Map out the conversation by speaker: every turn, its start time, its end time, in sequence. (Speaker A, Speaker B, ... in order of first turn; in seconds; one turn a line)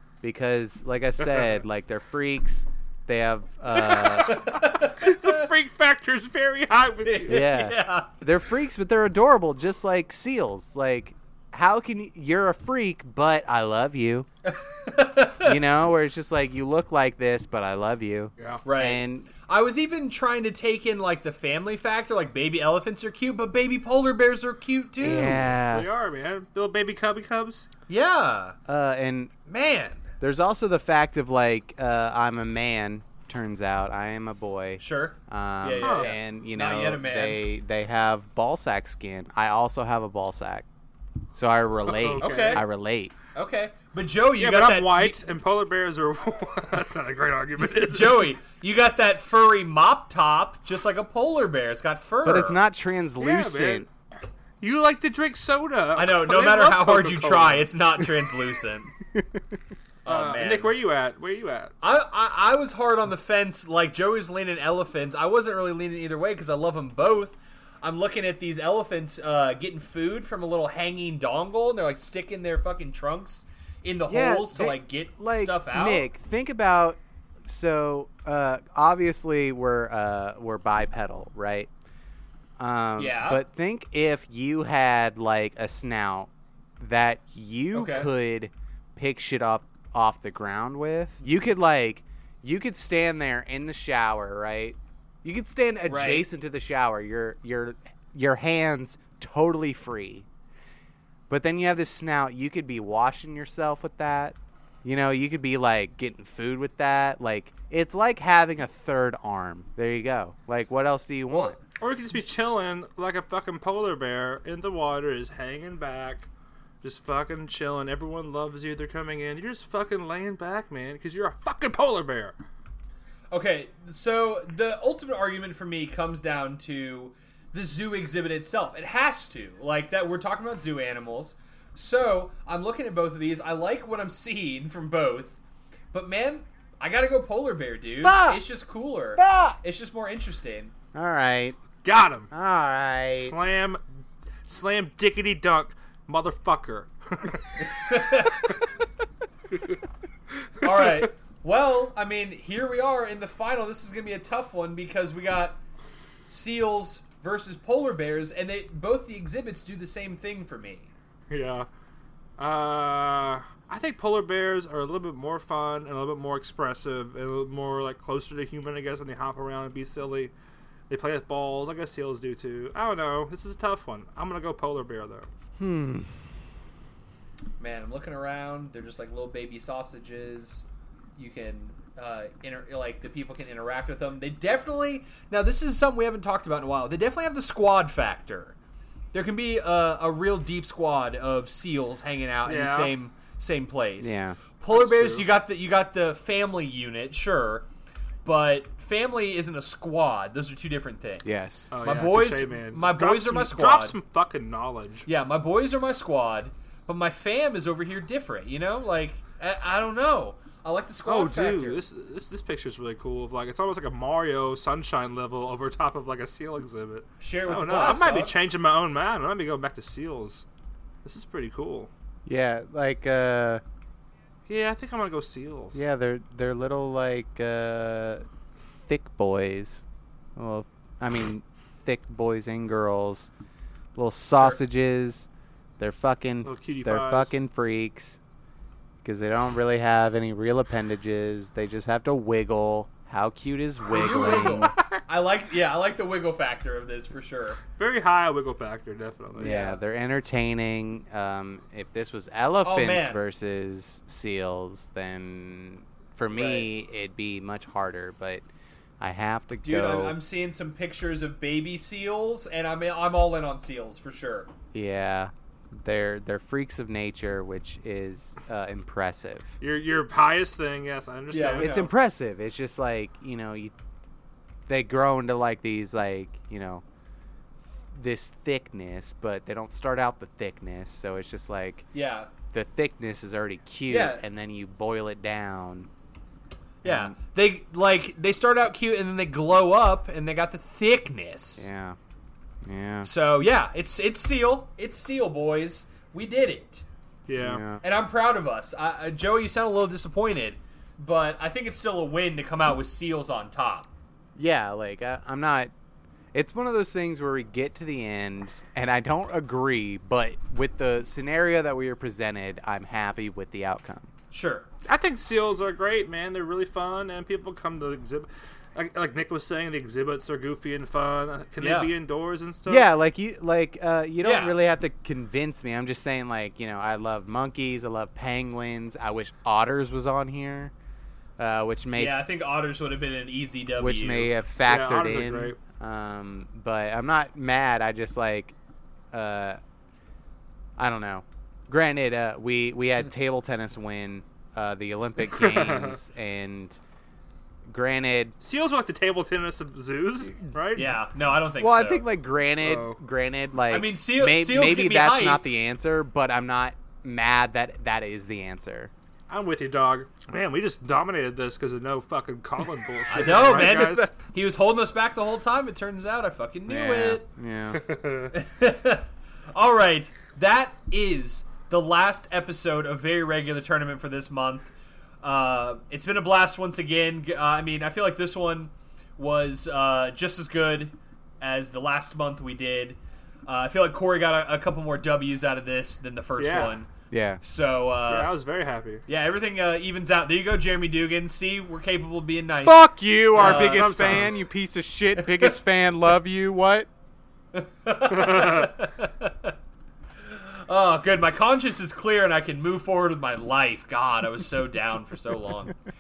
Speaker A: 0.2-4.5
Speaker B: 3.8-7.5
Speaker C: 4.0-5.5
Speaker C: 7.0-8.2
Speaker A: 7.3-14.3
Speaker C: 14.5-15.6
Speaker A: 15.4-19.3
Speaker C: 18.6-25.5
Speaker A: 25.0-25.9
Speaker B: 25.7-27.7
Speaker C: 27.9-28.6
Speaker A: 28.7-29.3
Speaker C: 29.5-30.1
Speaker A: 30.2-40.7
Speaker C: 34.8-37.5
Speaker B: 35.8-36.1
Speaker A: 41.3-43.1
Speaker B: 41.9-42.6
Speaker C: 42.2-42.6
Speaker C: 43.3-45.2
Speaker B: 44.4-48.3
Speaker C: 47.8-52.6
Speaker A: 52.2-53.9
Speaker B: 53.2-53.9
Speaker B: 54.6-58.0
Speaker C: 56.0-58.9
Speaker A: 59.1-59.4
Speaker C: 60.0-60.7
Speaker B: 60.1-61.7
Speaker C: 61.8-76.1
Speaker A: 74.1-81.7
Speaker A: 82.6-100.3
Speaker C: 83.0-83.4
Speaker C: 87.7-88.1
Speaker C: 95.9-96.3
Speaker A: 101.3-111.6
Speaker C: 111.3-111.6
Speaker B: 111.8-116.3
Speaker B: 116.8-122.4
Speaker C: 123.3-135.4
Speaker C: 135.9-140.7
Speaker A: 138.0-138.4
Speaker A: 139.2-139.6
Speaker A: 140.9-141.6
Speaker B: 141.8-142.3
Speaker A: 142.3-143.3
Speaker B: 143.1-143.8
Speaker B: 144.5-147.4
Speaker C: 147.6-148.5
Speaker C: 150.6-155.6
Speaker B: 150.7-151.1
Speaker C: 156.2-160.9
Speaker B: 161.3-161.7
Speaker B: 162.4-170.3
Speaker B: 170.9-175.3
Speaker A: 175.6-176.1
Speaker C: 177.6-180.6
Speaker C: 181.2-188.6
Speaker C: 189.1-197.7
Speaker B: 192.5-192.9
Speaker A: 194.0-194.4
Speaker B: 194.7-195.2
Speaker C: 198.2-203.9
Speaker A: 201.2-201.7
Speaker B: 201.7-205.1
Speaker C: 205.1-211.8
Speaker B: 211.1-220.4
Speaker C: 217.2-218.3
Speaker B: 221.1-221.9
Speaker A: 222.3-223.6
Speaker B: 224.5-225.8
Speaker A: 225.7-228.2
Speaker A: 228.8-229.8
Speaker A: 230.4-233.3
Speaker A: 233.9-235.3
Speaker A: 235.8-238.2
Speaker B: 236.4-237.4
Speaker A: 239.0-244.7
Speaker C: 243.9-247.6
Speaker B: 244.0-245.0
Speaker B: 247.8-249.6
Speaker A: 249.4-258.5
Speaker C: 249.4-249.8
Speaker C: 252.6-253.2
Speaker C: 256.3-256.7
Speaker A: 259.0-260.2
Speaker C: 259.6-264.5
Speaker A: 264.7-269.5
Speaker B: 269.6-271.8
Speaker C: 271.3-271.9
Speaker A: 271.6-273.7
Speaker A: 274.7-276.8
Speaker A: 277.6-281.9
Speaker C: 281.9-282.3
Speaker A: 282.5-285.9
Speaker C: 283.9-284.2
Speaker C: 286.8-291.7
Speaker A: 286.8-287.1
Speaker A: 291.6-292.0
Speaker A: 292.6-293.1
Speaker C: 293.0-296.8
Speaker B: 297.3-297.6
Speaker A: 297.4-297.8
Speaker C: 297.8-303.9
Speaker A: 304.4-305.7
Speaker A: 306.3-314.1
Speaker C: 314.3-314.7
Speaker B: 314.9-322.9
Speaker C: 321.6-321.9
Speaker A: 322.7-330.7
Speaker C: 324.2-324.6
Speaker A: 331.4-332.2
Speaker C: 331.9-334.4
Speaker A: 333.8-338.6
Speaker B: 334.7-335.6
Speaker A: 339.1-339.6
Speaker A: 340.8-346.8
Speaker B: 345.2-346.0
Speaker A: 347.7-348.4
Speaker B: 348.4-350.9
Speaker C: 350.8-352.0
Speaker A: 351.6-358.9
Speaker B: 352.6-353.0
Speaker C: 353.7-355.4
Speaker B: 359.3-364.1
Speaker C: 363.1-367.2
Speaker A: 366.7-367.8
Speaker B: 367.7-368.3
Speaker C: 368.3-374.7
Speaker C: 375.2-388.3
Speaker B: 386.4-386.8
Speaker A: 387.1-387.4
Speaker B: 388.1-389.1
Speaker C: 389.1-394.3
Speaker A: 392.6-396.9
Speaker B: 393.4-394.4
Speaker C: 397.5-399.6
Speaker B: 398.1-398.7
Speaker C: 400.2-405.8